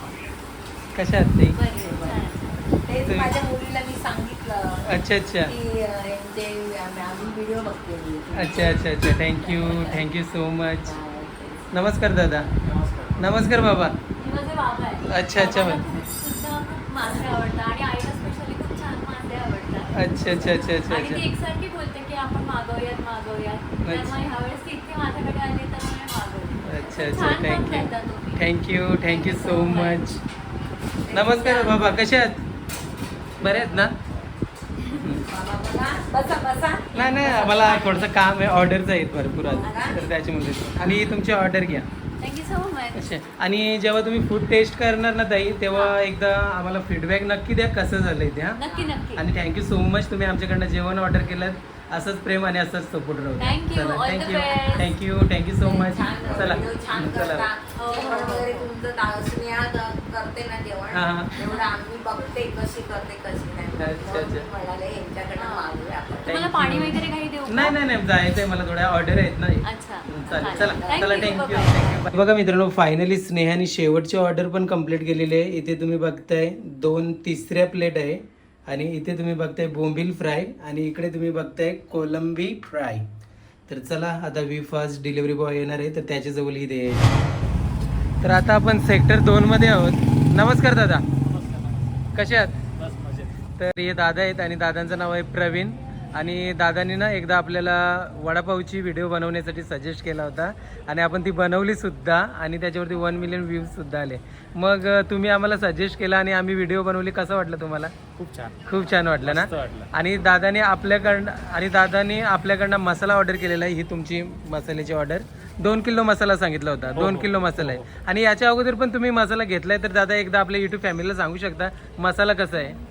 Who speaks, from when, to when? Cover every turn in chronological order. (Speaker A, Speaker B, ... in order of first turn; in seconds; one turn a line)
Speaker A: 0.9-1.6
Speaker B: 1.5-2.7
Speaker C: 1.8-2.2
Speaker C: 2.8-10.1
Speaker A: 3.1-3.4
Speaker A: 4.9-5.5
Speaker A: 8.3-11.0
Speaker C: 10.8-11.7
Speaker A: 11.7-12.5
Speaker A: 13.2-14.0
Speaker B: 14.2-28.5
Speaker A: 15.1-15.8
Speaker A: 20.0-21.2
Speaker A: 23.9-24.1
Speaker A: 26.6-30.2
Speaker B: 29.0-30.0
Speaker C: 31.0-31.8
Speaker A: 31.1-32.4
Speaker B: 31.4-31.7
Speaker A: 33.4-33.9
Speaker A: 34.9-35.2
Speaker C: 35.3-38.1
Speaker A: 36.9-41.9
Speaker C: 39.4-40.0
Speaker B: 40.8-41.2
Speaker B: 42.2-43.1
Speaker A: 42.9-48.6
Speaker B: 48.6-49.2
Speaker C: 48.6-49.0
Speaker A: 49.2-57.5
Speaker B: 53.4-54.9
Speaker C: 55.6-66.5
Speaker B: 57.8-58.7
Speaker A: 60.9-61.3
Speaker A: 63.8-64.5
Speaker B: 65.4-67.8
Speaker A: 66.3-83.1
Speaker B: 69.7-72.0
Speaker C: 70.3-71.4
Speaker A: 83.7-87.1
Speaker A: 88.2-91.0
Speaker D: 91.3-91.7
Speaker A: 92.2-92.6
Speaker D: 92.8-93.3
Speaker A: 93.6-107.9
Speaker D: 108.2-109.9
Speaker A: 108.7-122.8
Speaker D: 117.0-117.9